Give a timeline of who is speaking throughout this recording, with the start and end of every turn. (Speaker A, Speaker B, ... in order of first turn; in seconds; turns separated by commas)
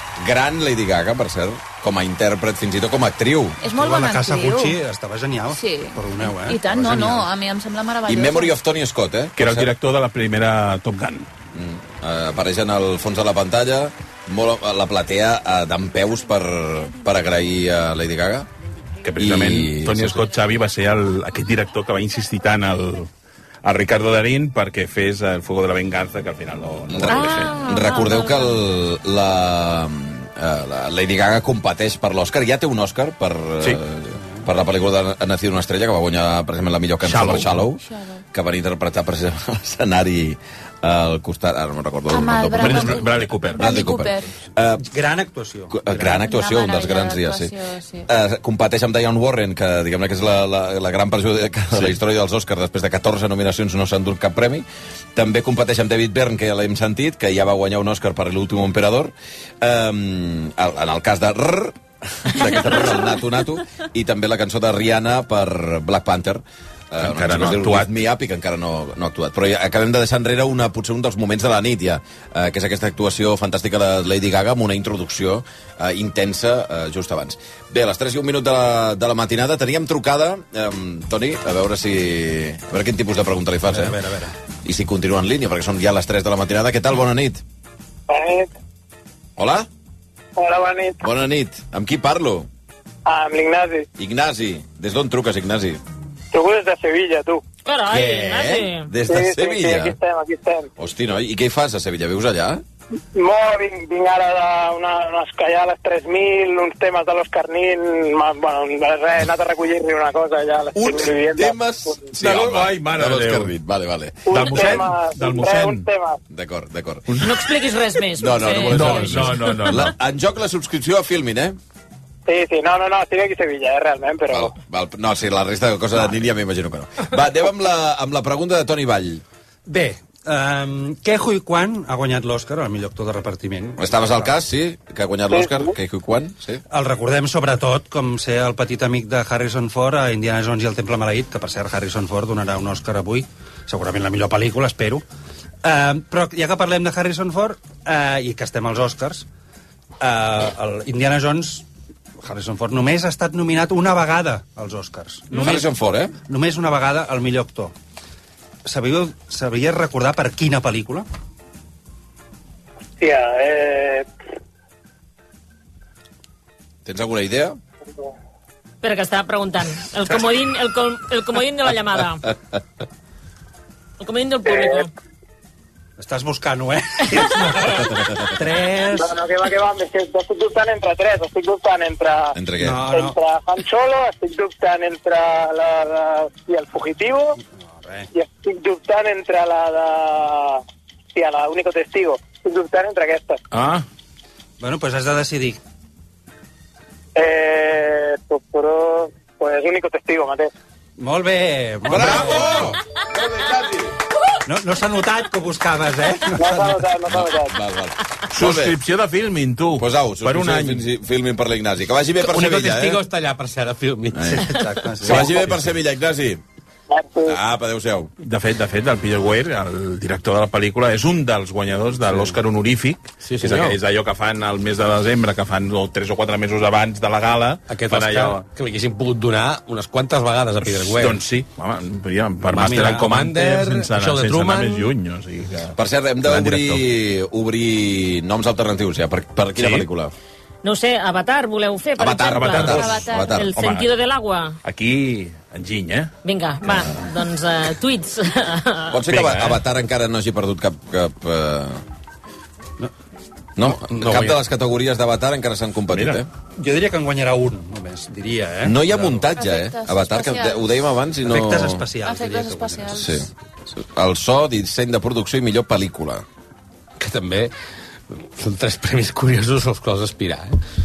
Speaker A: 0.2-3.6, Speaker B: 3.6-4.8, Speaker C: 3.7-7.3, Speaker B: 5.5-8.5, Speaker A: 8.0-9.7, Speaker D: 9.3-11.3, Speaker A: 11.5-18.5, Speaker D: 19.0-23.1, Speaker A: 19.1-20.3, Speaker D: 23.6-27.5, Speaker A: 26.9-37.8, Speaker E: 27.1-28.6, Speaker D: 37.0-37.6, Speaker B: 37.8-38.2, Speaker A: 38.3-44.8, Speaker B: 42.1-44.3, Speaker D: 42.6-43.8, Speaker C: 44.8-46.1, Speaker A: 45.7-47.5, Speaker B: 45.9-48.1, Speaker A: 48.1-84.0, Speaker D: 67.0-67.9, Speaker C: 83.7-84.3, Speaker A: 84.6-87.4, Speaker F: 88.1-88.5, Speaker A: 89.4-89.7, Speaker F: 90.4-91.0, Speaker A: 91.0-92.5, Speaker F: 93.0-93.9, Speaker A: 94.0-95.8, Speaker F: 96.3-97.4, Speaker E: 97.7-98.9, Speaker A: 97.9-99.9, Speaker F: 99.0-100.7, Speaker A: 100.8-102.6, Speaker F: 103.1-112.1, Speaker A: 110.7-114.9, Speaker D: 112.2-113.5, Speaker F: 114.2-116.2, Speaker D: 114.3-115.9, Speaker A: 116.3-117.2, Speaker E: 117.2-119.8, Speaker A: 118.1-121.6, Speaker D: 118.7-119.9, Speaker F: 122.3-124.5, Speaker A: 124.3-129.2, Speaker C: 129.7-134.3, Speaker A: 133.8-136.6, Speaker F: 135.3-135.7, Speaker C: 136.7-145.0, Speaker C: 145.6-149.2, Speaker C: 150.0-151.6, Speaker C: 152.2-155.7, Speaker A: 155.3-156.1, Speaker C: 156.3-157.7, Speaker C: 158.6-161.1, Speaker F: 163.0-164.0, Speaker A: 166.8-167.6, Speaker E: 168.8-172.3, Speaker E: 174.0-174.9, Speaker F: 174.4-174.8, Speaker C: 176.0-179.2, Speaker F: 178.9-182.3, Speaker A: 182.3-182.8, Speaker C: 182.6-183.2, Speaker F: 182.9-187.3, Speaker C: 187.7-188.1, Speaker F: 188.1-190.6, Speaker F: 191.1-193.4, Speaker D: 193.5-193.8, Speaker C: 194.6-195.6, Speaker F: 197.1-200.5, Speaker C: 201.0-202.7, Speaker A: 201.9-203.9, Speaker D: 202.4-202.7, Speaker C: 204.4-206.9, Speaker F: 206.3-207.5, Speaker A: 207.1-208.8, Speaker D: 208.3-210.8, Speaker A: 209.8-213.0, Speaker G: 212.2-215.3, Speaker A: 214.2-214.5, Speaker C: 214.2-215.6, Speaker A: 215.0-216.4, Speaker F: 216.9-217.4, Speaker A: 217.2-218.1, Speaker D: 218.2-228.4, Speaker C: 222.1-222.3, Speaker G: 223.2-223.8, Speaker G: 227.7-231.2, Speaker D: 230.6-236.8, Speaker G: 232.5-234.9, Speaker C: 232.6-233.0, Speaker A: 235.8-240.1, Speaker D: 239.6-239.8, Speaker E: 240.6-244.6, Speaker A: 242.0-243.6, Speaker D: 242.2-243.9, Speaker B: 242.6-243.4, Speaker D: 244.6-246.1, Speaker E: 246.2-249.0, Speaker A: 248.9-251.8, Speaker D: 249.1-249.6, Speaker A: 253.6-256.3, Speaker G: 253.9-254.4, Speaker D: 255.9-256.2, Speaker C: 256.6-259.2, Speaker A: 258.6-261.9, Speaker B: 259.3-260.6, Speaker C: 261.2-263.1, Speaker B: 262.0-263.2, Speaker A: 262.9-266.2, Speaker G: 267.0-267.5, Speaker G: 268.1-270.6